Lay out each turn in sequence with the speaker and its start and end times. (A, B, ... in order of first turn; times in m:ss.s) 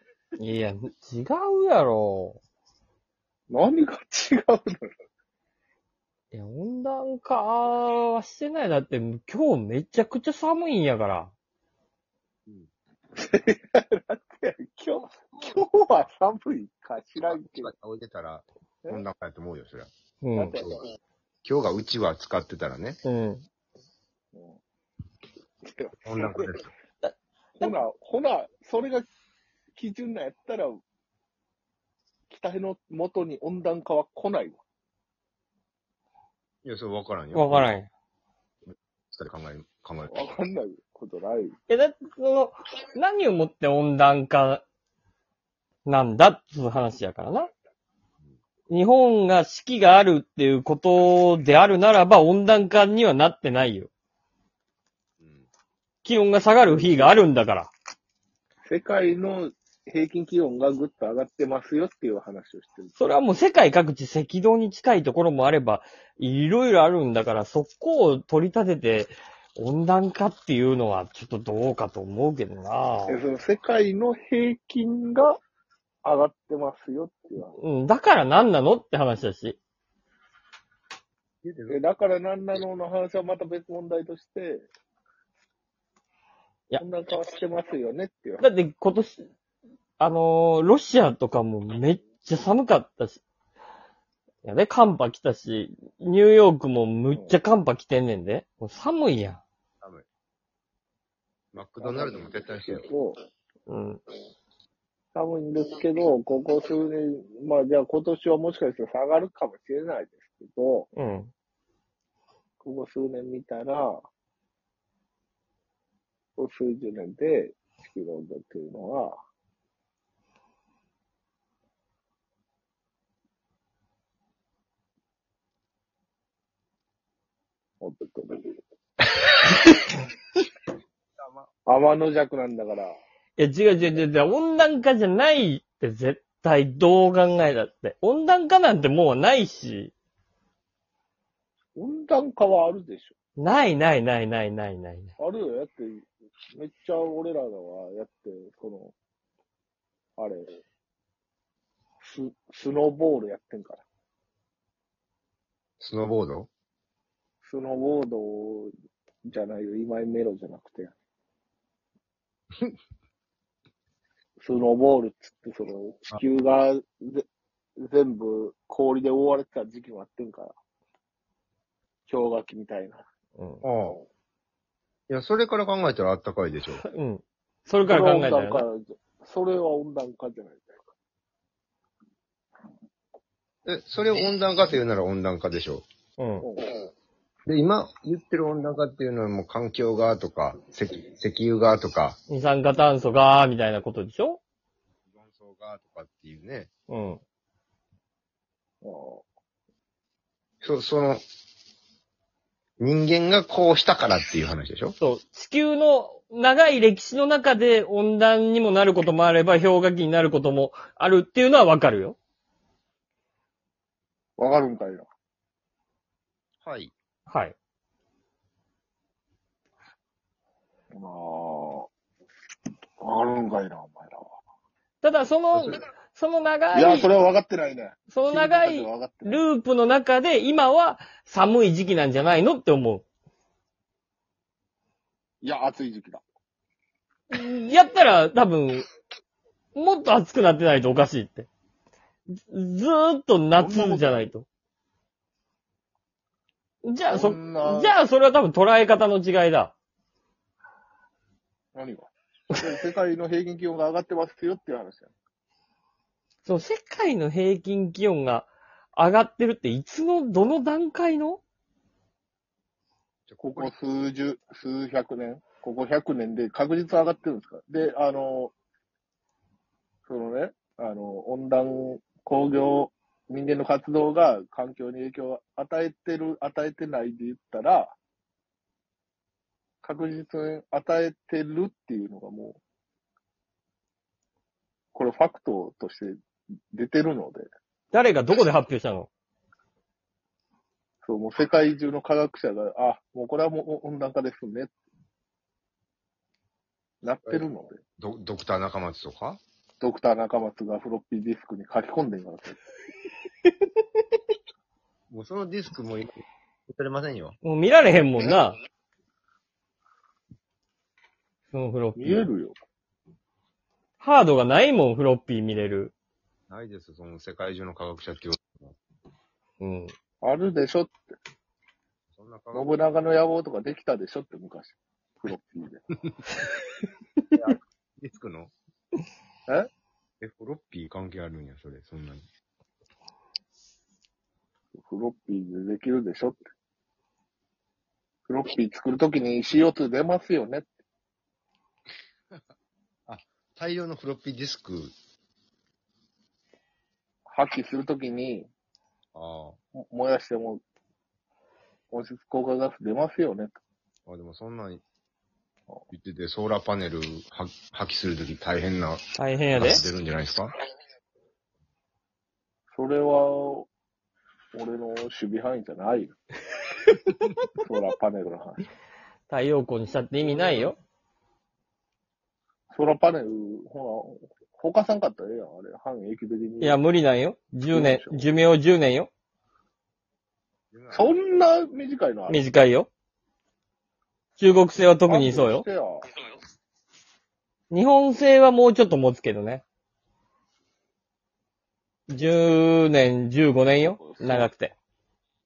0:00.4-0:02.4 A
0:03.5-0:04.9 B
0:06.3-0:11.3 A
0:13.2-0:17.7 B
0:17.3-0:19.9 C
0:20.2-0:20.6 A
0:20.4-0:20.7 B
0:20.6-0:20.8 C
0:21.4-0:23.0 C
0:23.0-0:23.4 A
0:24.3-0:24.6 B
0:25.6-0:26.5 B
0:26.0-0:26.7 C
0:27.0-0:27.7 A
0:27.6-0:29.1 B
0:29.8-0:30.8 B
0:32.3-0:34.6 B
0:36.6-0:37.7 C
0:37.3-0:37.9 A
0:39.1-0:40.3 C
0:40.1-0:41.6 B
0:41.7-0:44.6 A
0:45.9-0:47.5 A
0:48.7-0:53.9 A
0:55.2-0:55.5 C
0:56.0-0:57.7 A
0:56.6-0:57.2 B
0:58.7-1:03.0 B
1:03.0-1:13.2 A
1:13.1-1:15.4 B
1:16.0-1:17.6 B
1:17.6-1:19.6 A
1:21.4-1:21.8 C
1:21.7-1:24.7 B
1:26.8-1:28.5 B
1:28.4-1:29.3 A
1:30.0-1:33.2 A
1:34.4-1:39.4 A
1:39.8-1:40.1 C
1:41.5-1:42.9 C
1:41.8-1:43.2 B
1:43.7-1:44.0 A
1:45.2-1:50.9 B
1:51.0-1:51.3 A
1:52.6-1:54.0 B
1:56.4-1:59.2 B
2:07.8-2:08.6 B
2:11.2-2:11.5 C
2:11.7-2:12.9 B
2:13.4-2:19.9 A
2:21.8-2:23.2 B
2:23.4-2:25.2 A
2:25.2-2:28.9 B
2:30.2-2:30.5 B
2:32.0-2:33.8 B
2:35.8-2:36.5 C
2:37.4-2:38.7 B
2:39.3-2:40.9 B
2:44.4-2:47.2 B
2:47.8-2:50.5 B
2:52.1-2:53.0 B
2:53.4-2:53.6 A
2:53.6-2:54.0 C
2:55.1-2:56.8 C
2:56.8-2:58.7 A
2:57.8-3:00.8 B
3:03.7-3:05.9 C
3:06.2-3:06.4 A
3:06.4-3:06.8 B
3:07.5-3:12.2 C
3:12.3-3:14.4 A
3:15.1-3:16.7 C
3:16.9-3:17.2 A
3:18.8-3:19.2 B
3:20.6-3:21.2 C
3:22.8-3:25.0 C
3:25.0-3:32.2 A
3:34.4-3:35.1 B
3:36.6-3:36.9 C
3:37.3-3:37.6 A
3:40.9-3:41.9 B
3:43.0-3:44.2 B
3:45.0-3:47.1 A
3:45.5-3:45.8 C
3:46.7-3:49.5 B
3:48.1-3:53.0 A
3:55.4-3:56.2 B
3:57.3-3:58.8 A
3:59.8-4:01.5 A
4:02.4-4:04.4 A
4:03.6-4:04.3 B
4:06.8-4:09.7 A
4:07.1-4:08.0 B
4:11.8-4:15.1 B
4:16.4-4:21.4 A
4:23.3-4:23.7 C
4:23.4-4:28.5 B
4:30.1-4:38.0 B
4:39.8-4:42.6 B
4:44.9-4:46.2 B
4:46.7-4:47.5 B
4:47.9-4:49.1 A
4:51.0-4:54.7 B
4:57.0-4:57.8 B
4:58.0-4:59.4 C
4:59.8-5:02.6 B
5:05.1-5:06.1 C
5:06.7-5:07.4 C
5:07.4-5:08.6 A
5:11.5-5:12.3 A
5:12.0-5:12.6 B
5:14.0-5:15.9 A
5:16.5-5:18.8 C
5:19.6-5:19.9 A
5:20.2-5:21.0 B
5:22.1-5:22.8 C
5:22.5-5:25.8 B
5:27.4-5:28.5 C
5:30.2-5:32.2 C
5:34.8-5:36.5 B
5:38.3-5:40.7 B
5:43.1-5:44.9 C
5:47.3-5:48.5 B
5:49.1-5:49.6 C
5:49.8-5:50.6 B
5:51.9-5:53.6 B
5:54.1-5:54.8 C
5:55.9-6:00.5 C
5:59.2-5:59.8 A
6:02.7-6:03.7 B
6:04.5-6:06.2 B
6:07.6-6:08.6 B
6:09.3-6:10.8 A
6:10.2-6:10.7 B
6:12.7-6:16.8 B
6:16.6-6:19.1 A
6:17.7-6:18.3 B
6:20.7-6:21.2 C
6:20.9-6:22.6 B
6:22.3-6:22.9 A
6:24.4-6:25.7 A
6:25.1-6:26.1 B
6:27.7-6:29.6 A
6:32.1-6:34.8 A
6:33.6-6:34.5 B